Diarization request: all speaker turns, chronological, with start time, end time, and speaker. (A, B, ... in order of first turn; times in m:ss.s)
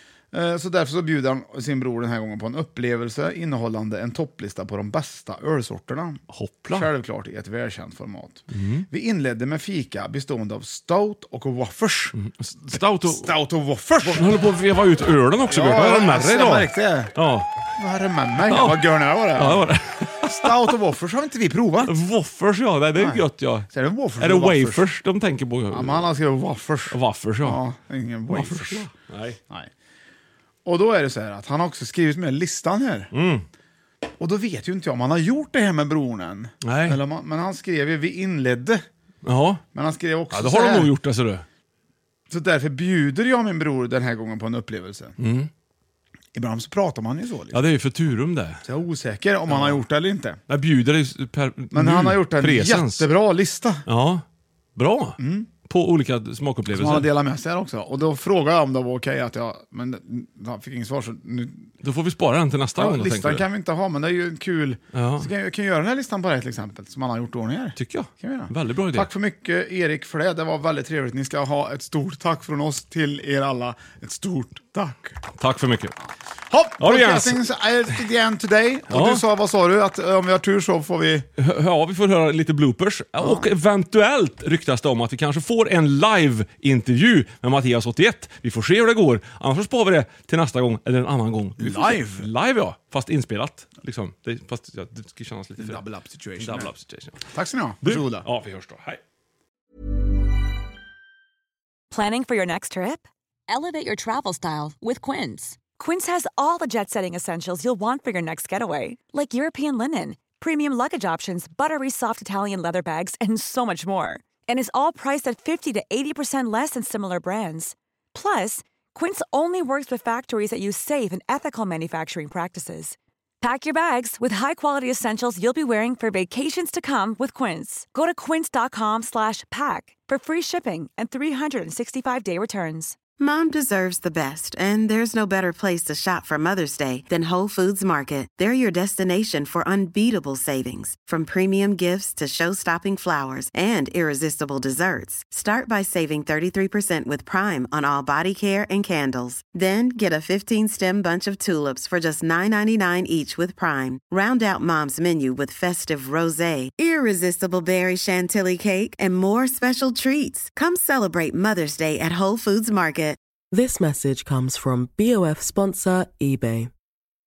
0:00.3-0:12.1 A
0:06.3-0:06.9 B
0:08.5-0:08.8 B
0:12.2-0:13.3 B
0:12.7-0:14.3 A
0:14.0-0:17.5 B
0:15.5-0:17.1 A
0:17.8-0:19.6 A
0:18.4-0:18.8 B
0:19.3-0:20.7 B
0:20.2-0:21.9 A
0:21.8-0:26.1 B
0:23.0-0:24.8 A
0:25.7-0:28.8 A
0:26.9-0:27.6 B
0:28.3-0:29.4 B
0:30.6-0:33.1 A
0:33.1-0:33.4 B
0:34.2-0:38.8 A
0:36.6-0:37.0 B
0:39.2-0:39.6 B
0:39.7-0:40.9 A
0:40.3-0:41.4 B
0:42.3-0:45.2 A
0:45.2-0:45.5 B
0:46.3-0:47.6 A
0:47.5-0:48.6 B
0:48.6-0:50.4 A
0:49.5-0:49.8 B
0:50.5-0:53.1 B
0:51.7-0:53.8 A
0:53.9-0:54.2 B
0:54.8-0:57.1 B
0:55.2-0:55.5 A
0:56.7-1:01.7 A
1:01.8-1:03.4 B
1:02.8-1:15.2 A
1:04.9-1:05.3 B
1:07.8-1:09.1 B
1:15.4-1:15.9 B
1:16.5-1:21.2 A
1:16.8-1:17.4 B
1:18.9-1:19.2 B
1:21.4-1:35.8 B
1:23.2-1:23.5 A
1:31.6-1:32.3 A
1:35.6-1:36.7 A
1:36.4-1:37.2 B
1:37.3-1:38.3 A
1:37.8-1:39.0 B
1:41.9-1:43.0 C
1:43.5-1:45.7 D
1:45.7-2:13.0 C
2:13.2-2:43.2 E
2:43.5-2:46.7 F